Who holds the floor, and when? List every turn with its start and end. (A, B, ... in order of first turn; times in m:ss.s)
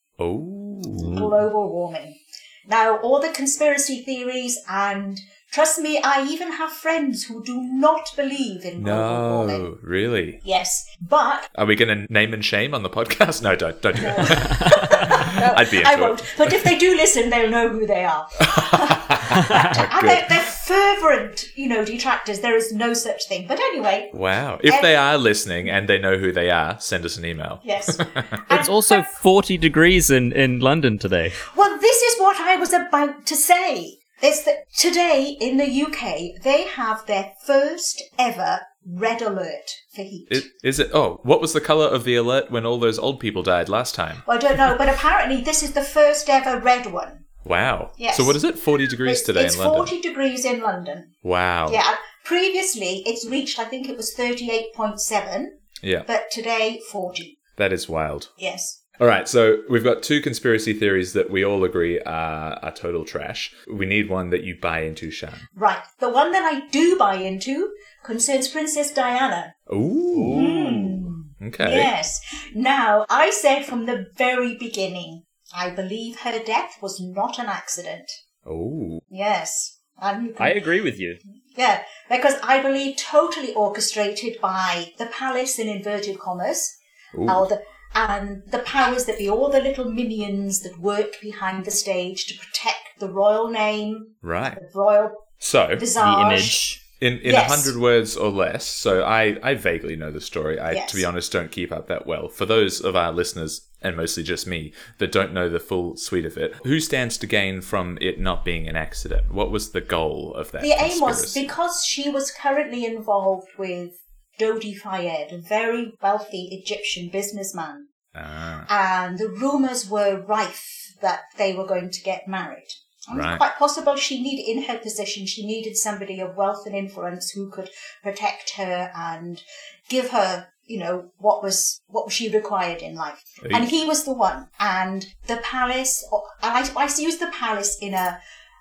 0:00.2-0:01.3 A
0:01.0-0:01.2 B
0:01.0-0:09.7 C
0:08.8-0:10.4 A
0:10.4-0:11.5 C
0:11.5-0:16.7 A
0:14.0-0:24.1 C
0:18.5-0:20.5 A
0:24.1-0:28.4 A
0:24.7-0:24.9 C
0:27.6-0:29.1 C
0:28.5-0:31.4 B
0:31.5-0:40.5 C
0:40.3-0:44.2 A
0:44.3-0:47.3 C
0:47.4-0:49.9 A
0:48.0-0:48.4 C
0:49.0-0:51.1 C
0:51.2-0:51.8 A
0:51.7-0:57.4 C
0:55.8-0:56.1 A
0:57.6-0:58.3 A
0:58.4-0:58.8 C
0:59.0-1:05.5 A
1:05.6-1:09.6 C
1:09.7-1:10.5 A
1:10.1-1:11.1 B
1:10.3-1:18.2 C
1:11.4-1:11.9 A
1:18.4-1:19.0 A
1:19.1-1:20.6 C
1:20.4-1:21.2 B
1:21.6-1:37.7 C
1:27.1-1:27.4 A
1:34.2-1:34.6 A
1:35.4-1:35.9 A
1:36.0-1:36.6 B
1:37.0-1:51.5 A
1:40.7-1:41.0 C
1:50.6-1:57.9 C
1:58.1-1:58.7 A
1:58.7-2:18.2 C
2:03.1-2:03.4 A
2:13.4-2:13.7 A